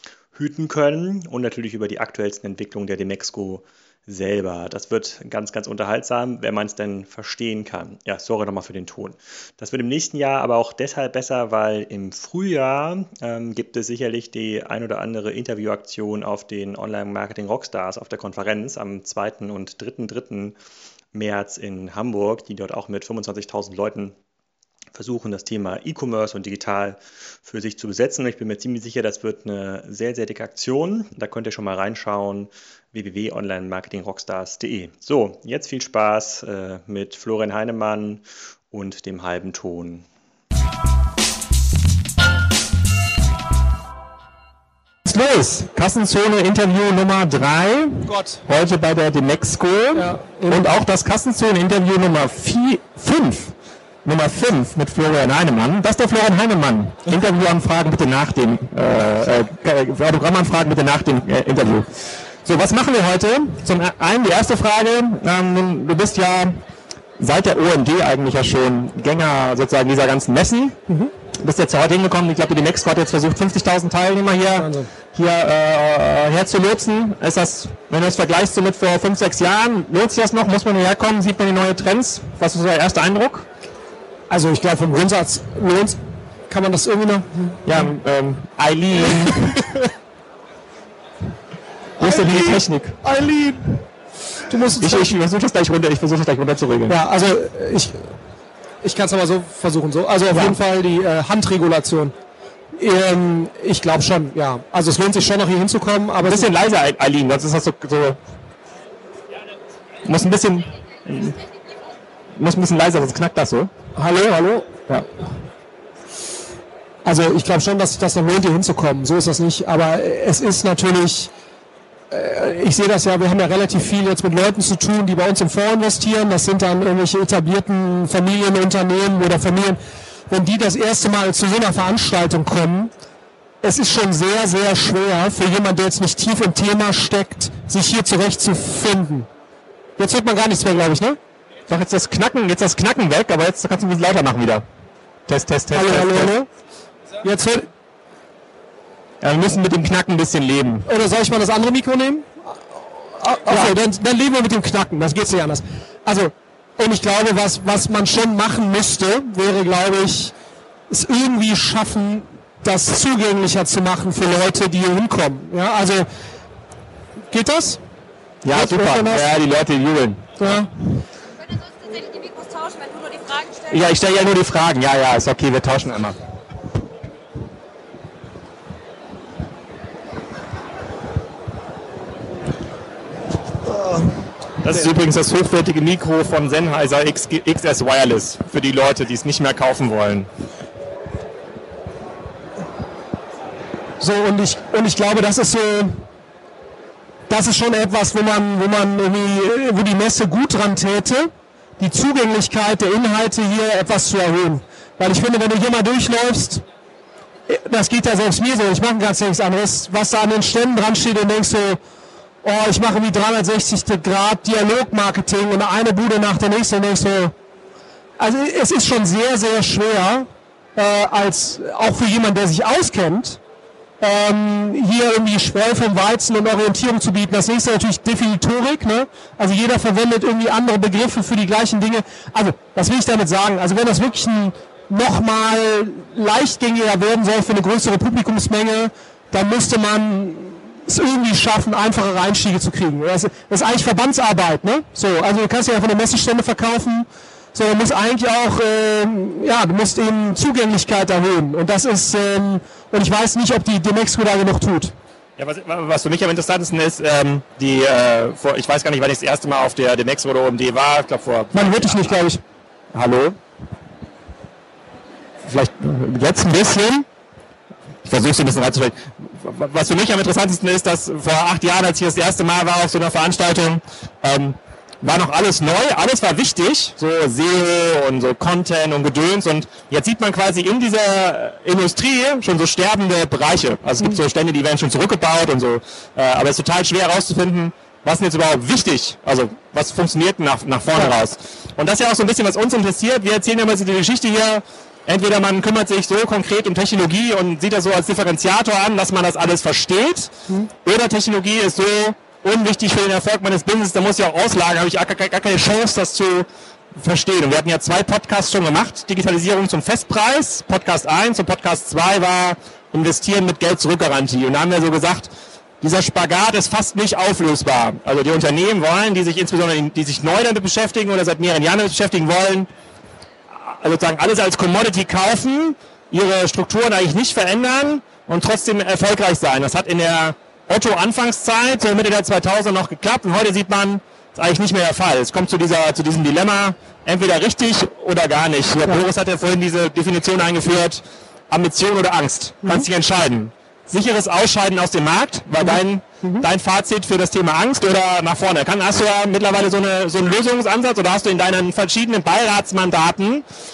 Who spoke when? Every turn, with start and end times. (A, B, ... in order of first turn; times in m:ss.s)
0:00.3-0:20.6 A
0:21.1-0:24.2 A
0:24.9-0:40.1 A
0:45.0-0:53.5 B
0:48.0-0:48.4 C
0:49.9-0:50.7 C
0:54.0-1:01.9 B
1:02.4-1:06.6 B
1:07.2-1:10.8 B
1:11.4-1:23.4 B
1:14.6-1:14.9 C
1:24.3-1:26.0 C
1:26.5-1:27.6 C
1:27.6-1:29.6 B
1:29.1-1:29.8 C
1:32.0-1:33.0 B
1:32.0-1:33.8 C
1:34.5-1:35.1 C
1:34.8-1:37.0 B
1:36.9-1:38.1 C
1:38.8-1:42.1 C
1:42.8-1:46.5 C
1:46.2-1:48.2 B
1:50.0-1:51.4 B
1:52.4-1:53.7 B
1:54.0-1:54.8 C
1:57.0-2:01.3 C
2:02.1-2:12.9 C
2:13.6-2:19.3 C
2:20.0-2:21.2 C
2:21.7-2:24.6 B
2:25.3-2:26.3 B
2:25.7-2:26.5 C
2:27.2-2:27.7 C
2:29.2-2:30.9 B
2:30.9-2:32.3 C
2:33.2-2:40.3 C
2:33.5-2:33.7 B
2:40.9-2:46.1 C
2:47.3-2:47.8 C
2:48.4-2:50.6 B
2:48.5-2:49.3 C
2:50.4-2:50.7 C
2:53.6-2:56.2 B
3:04.6-3:10.3 B
3:14.0-3:16.0 C
3:17.3-3:26.6 C
3:27.5-3:31.8 C
3:32.4-3:37.3 C
3:38.2-3:43.4 C
3:44.0-4:14.9 C
4:15.4-4:22.1 B
4:21.5-4:22.4 C
4:22.9-4:23.4 B
4:25.4-4:27.0 B
4:28.0-5:00.3 B
5:00.8-5:15.3 B
5:15.8-5:22.7 B
5:23.5-5:53.4 B
5:45.7-5:46.4 C